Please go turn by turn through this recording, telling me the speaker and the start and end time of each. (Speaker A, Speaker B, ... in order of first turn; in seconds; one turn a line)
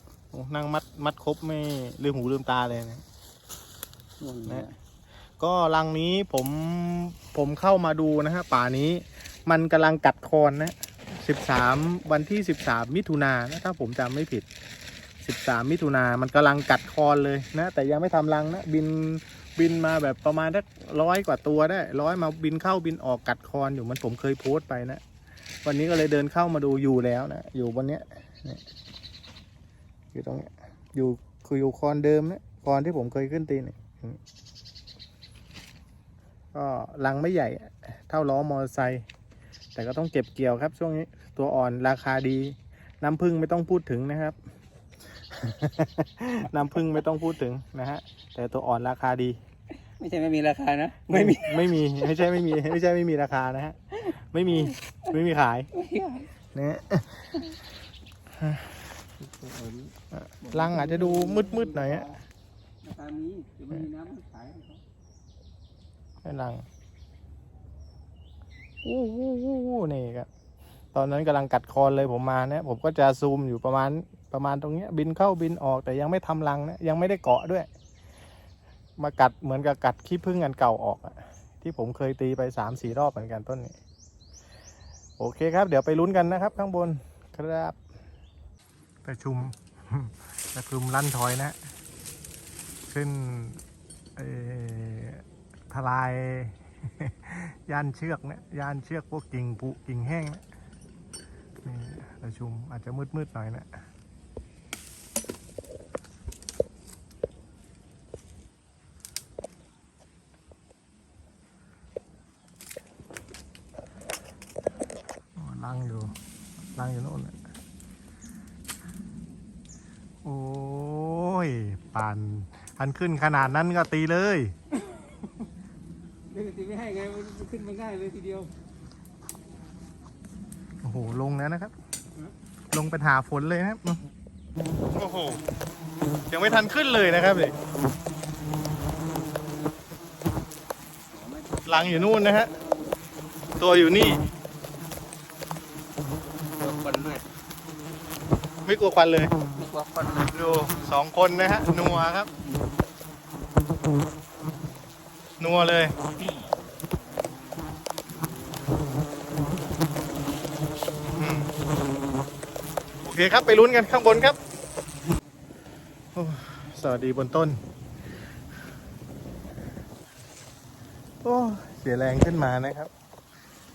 Speaker A: 0.3-3.0
Speaker B: 4.2-4.7
Speaker A: 5.4-14.5
Speaker A: 15.2-25.0
Speaker A: 25.6-28.6
Speaker A: 30.1-34.2
Speaker A: 36.5-39.1
Speaker A: 39.8-44.4
Speaker A: 45.3-49.4
Speaker B: 50.0-51.9
Speaker A: 51.1-55.7
Speaker B: 55.7-56.3
Speaker A: 56.5-57.5
Speaker A: 58.4-58.8
Speaker B: 59.2-62.2
Speaker A: 60.1-62.1
Speaker B: 62.8-64.8
Speaker A: 66.2-66.7
Speaker A: 68.8-70.3
Speaker A: 70.9-77.7
Speaker A: 79.0-83.8
Speaker A: 85.2-87.8
Speaker A: 89.0-91.6
Speaker A: 92.9-93.6
Speaker A: 94.2-100.4
Speaker A: 101.6-103.7
Speaker A: 115.4-116.2
Speaker A: 116.8-117.4
Speaker A: 120.2-124.5
Speaker B: 126.3-128.5
Speaker A: 130.8-131.7
Speaker A: 132.7-134.0
Speaker A: 134.9-135.4
Speaker A: 136.3-137.6
Speaker B: 141.1-142.6
Speaker A: 141.7-142.5
Speaker A: 143.6-144.2
Speaker B: 146.5-147.3
Speaker A: 148.7-149.3
Speaker B: 149.6-150.3
Speaker A: 150.3-152.3
Speaker A: 155.4-156.0
Speaker A: 161.1-161.5
Speaker A: 163.0-164.4
Speaker A: 166.1-167.6
Speaker A: 171.2-172.9